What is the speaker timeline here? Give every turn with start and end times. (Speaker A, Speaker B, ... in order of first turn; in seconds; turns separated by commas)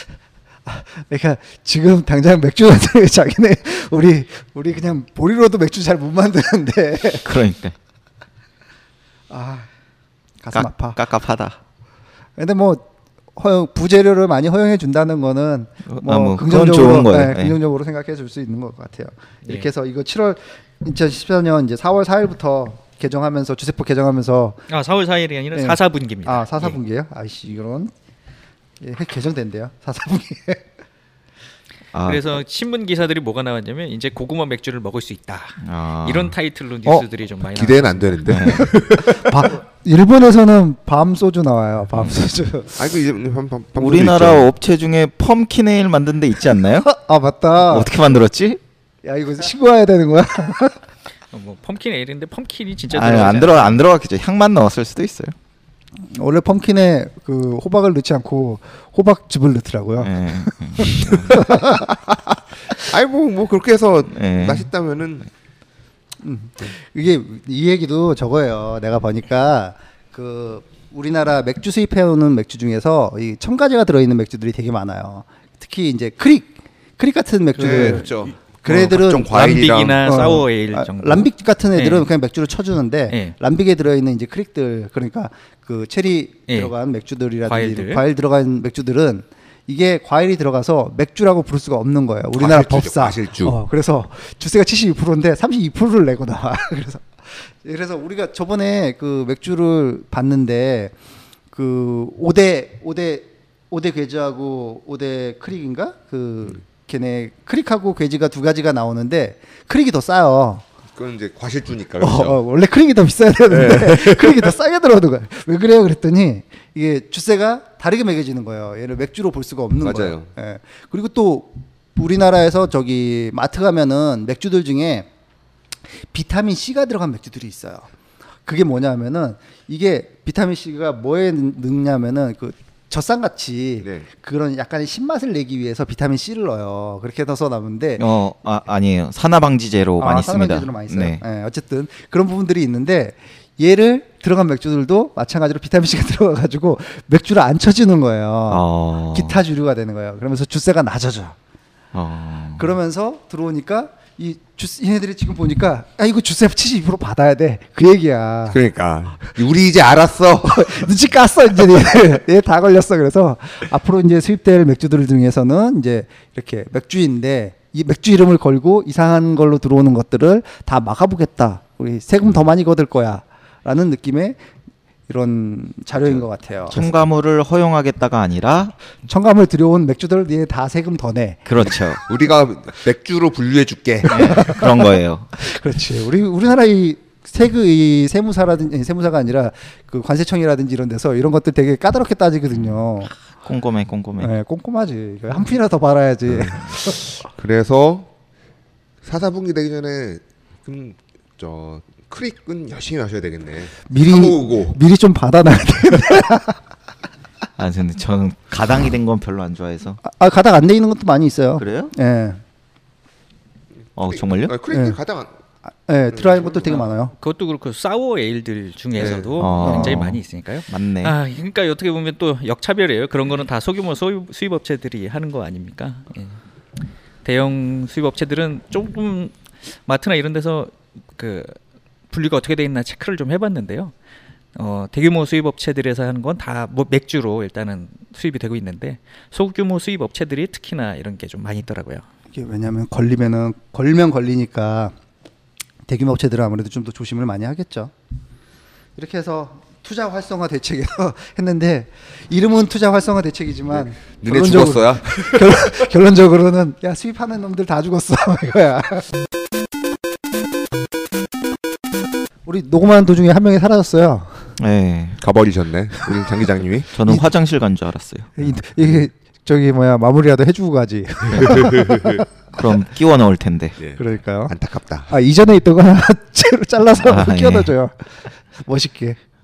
Speaker A: 0.7-7.3, Speaker B: 7.2-7.8, Speaker A: 9.3-9.7, Speaker A: 10.4-11.0, Speaker B: 10.5-11.6, Speaker A: 12.4-12.8, Speaker A: 13.3-24.7, Speaker B: 15.9-17.6, Speaker C: 19.4-19.7, Speaker C: 24.7-26.8, Speaker A: 25.5-27.9, Speaker A: 28.8-30.6, Speaker B: 31.9-32.3, Speaker C: 32.0-38.2, Speaker B: 35.6-37.0, Speaker D: 37.5-39.5, Speaker B: 38.2-38.7, Speaker A: 38.5-42.8, Speaker D: 42.8-44.5, Speaker B: 43.8-46.9, Speaker A: 46.9-47.9, Speaker B: 47.6-48.6, Speaker A: 49.0-50.8, Speaker C: 51.3-53.8, Speaker B: 52.9-55.3, Speaker A: 56.1-61.9, Speaker B: 60.0-61.4, Speaker D: 61.1-62.1, Speaker D: 62.7-65.3, Speaker B: 64.1-64.7, Speaker A: 66.2-79.4, Speaker D: 77.5-80.0, Speaker C: 77.6-78.1, Speaker C: 79.3-82.1, Speaker A: 80.0-100.9, Speaker C: 83.1-83.3, Speaker C: 87.5-88.0, Speaker D: 92.3-93.6, Speaker A: 101.5-110.6, Speaker D: 111.0-112.4, Speaker A: 112.0-125.1, Speaker D: 113.5-114.5, Speaker D: 119.8-120.3, Speaker A: 126.1-127.9, Speaker A: 128.4-138.0, Speaker D: 133.8-134.1, Speaker B: 138.0-141.2, Speaker A: 140.0-151.3, Speaker B: 148.5-149.4, Speaker B: 151.9-152.8, Speaker A: 152.6-158.6, Speaker D: 158.5-160.9, Speaker A: 160.4-174.4, Speaker A: 175.1-176.9, Speaker B: 176.7-178.7, Speaker A: 179.1-181.4, Speaker B: 181.4-182.0, Speaker D: 181.7-184.4, Speaker B: 184.1-185.3, Speaker A: 184.1-193.1, Speaker B: 192.5-192.8, Speaker B: 193.4-194.3, Speaker A: 194.2-197.2, Speaker D: 196.3-196.6, Speaker D: 197.3-198.1, Speaker D: 199.0-204.8, Speaker A: 203.9-206.6, Speaker B: 207.6-210.0, Speaker A: 210.0-212.4, Speaker B: 211.6-211.9, Speaker B: 213.9-214.6, Speaker D: 214.1-215.3, Speaker A: 214.7-215.0, Speaker A: 215.7-217.1, Speaker D: 216.1-216.8, Speaker C: 217.1-226.4, Speaker D: 219.0-219.3, Speaker B: 219.4-221.2, Speaker A: 219.6-220.0, Speaker C: 227.2-231.6, Speaker C: 232.1-233.9, Speaker C: 234.5-242.0, Speaker A: 242.3-244.9, Speaker A: 245.9-247.9, Speaker A: 248.9-259.1, Speaker D: 253.7-255.8, Speaker A: 262.4-264.5, Speaker B: 264.6-265.2, Speaker D: 265.2-266.9, Speaker B: 266.9-268.3, Speaker A: 268.4-272.2, Speaker B: 271.3-271.7, Speaker D: 271.4-272.2, Speaker B: 272.5-273.8, Speaker D: 273.8-275.1, Speaker A: 274.0-274.5, Speaker A: 275.1-279.2, Speaker B: 276.9-277.7